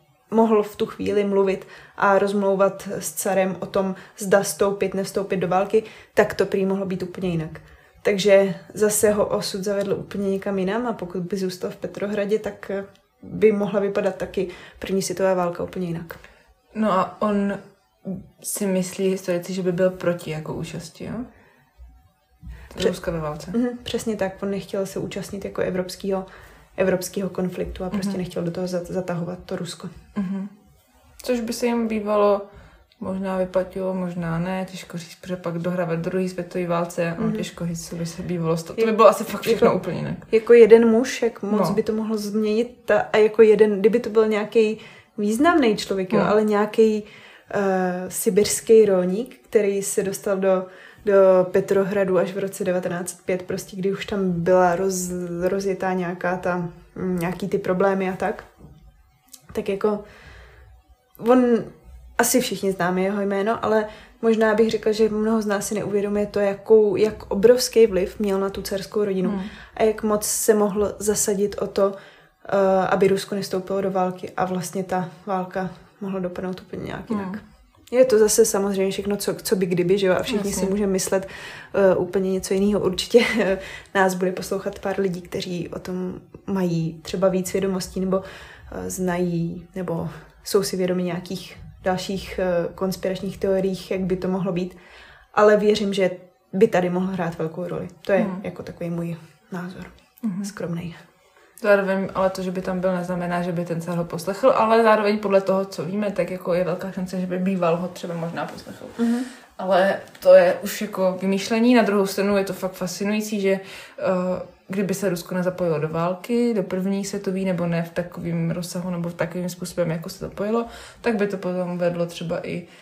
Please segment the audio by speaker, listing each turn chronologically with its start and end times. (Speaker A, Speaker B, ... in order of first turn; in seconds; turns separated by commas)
Speaker A: 0.3-16.2, Speaker B: 16.7-21.3, Speaker B: 22.7-23.5, Speaker A: 23.5-26.2, Speaker A: 26.8-29.9, Speaker B: 27.9-28.2, Speaker B: 30.1-30.5, Speaker B: 31.2-32.5, Speaker B: 33.0-40.2, Speaker A: 37.2-37.5, Speaker A: 38.8-39.7, Speaker A: 40.3-58.5, Speaker B: 41.5-41.8, Speaker A: 59.5-60.0, Speaker A: 61.2-71.9, Speaker B: 69.2-69.5, Speaker A: 72.4-94.7, Speaker B: 77.1-77.4, Speaker B: 80.3-80.7, Speaker A: 95.3-101.0, Speaker B: 98.2-98.4, Speaker B: 100.2-100.5, Speaker B: 101.6-122.7, Speaker A: 109.0-109.3